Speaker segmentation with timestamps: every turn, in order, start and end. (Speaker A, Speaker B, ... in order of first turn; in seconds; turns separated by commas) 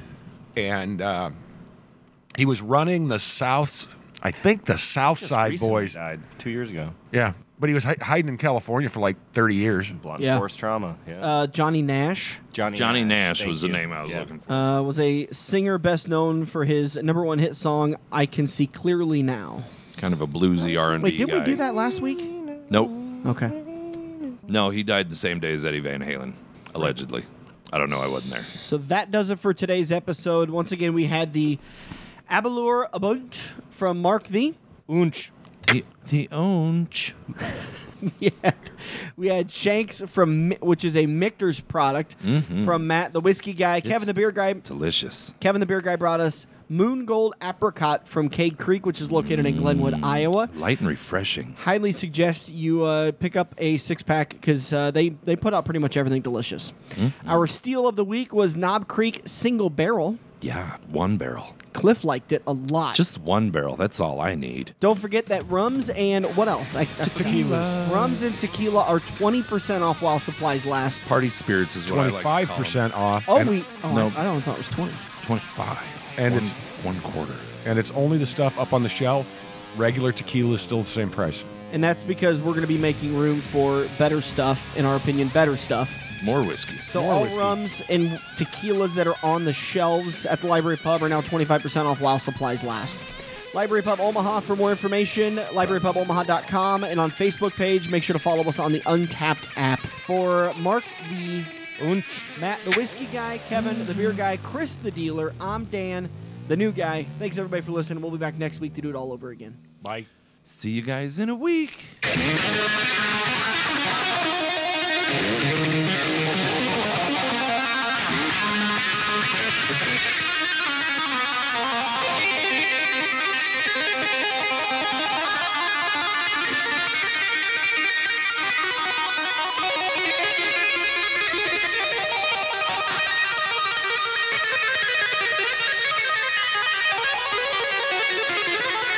Speaker A: 0.5-1.3, Speaker A: 2.3-6.0, Speaker B: 5.2-7.0, Speaker A: 7.1-9.9, Speaker B: 9.9-11.3, Speaker C: 10.2-10.4, Speaker C: 11.2-12.4, Speaker B: 12.5-14.3, Speaker D: 12.7-14.7, Speaker C: 14.5-19.7, Speaker D: 19.9-21.6, Speaker C: 21.0-22.3, Speaker B: 22.2-23.2, Speaker D: 22.7-22.9, Speaker C: 23.2-23.5, Speaker B: 23.7-24.4, Speaker D: 24.4-28.5, Speaker C: 28.4-31.6, Speaker C: 32.3-34.6, Speaker B: 34.9-35.3, Speaker D: 35.6-37.2, Speaker C: 38.0-44.6, Speaker D: 42.2-42.8, Speaker D: 43.8-44.1, Speaker D: 44.6-45.3, Speaker C: 45.4-50.5, Speaker D: 49.1-51.5, Speaker C: 51.6-60.2, Speaker D: 57.0-57.4, Speaker D: 60.4-61.5, Speaker C: 61.7-63.0, Speaker D: 62.9-64.7, Speaker C: 64.8-71.1, Speaker D: 67.0-68.3, Speaker A: 67.1-67.8, Speaker D: 71.0-72.8, Speaker A: 71.9-73.5, Speaker C: 73.3-75.0, Speaker D: 73.9-74.2, Speaker D: 75.2-77.5, Speaker A: 76.2-76.6, Speaker A: 77.6-81.5, Speaker C: 81.7-86.0, Speaker D: 86.2-86.9, Speaker C: 86.9-101.5, Speaker A: 86.9-87.6, Speaker B: 101.8-102.3, Speaker C: 102.3-109.6, Speaker A: 109.8-110.1, Speaker D: 110.4-112.0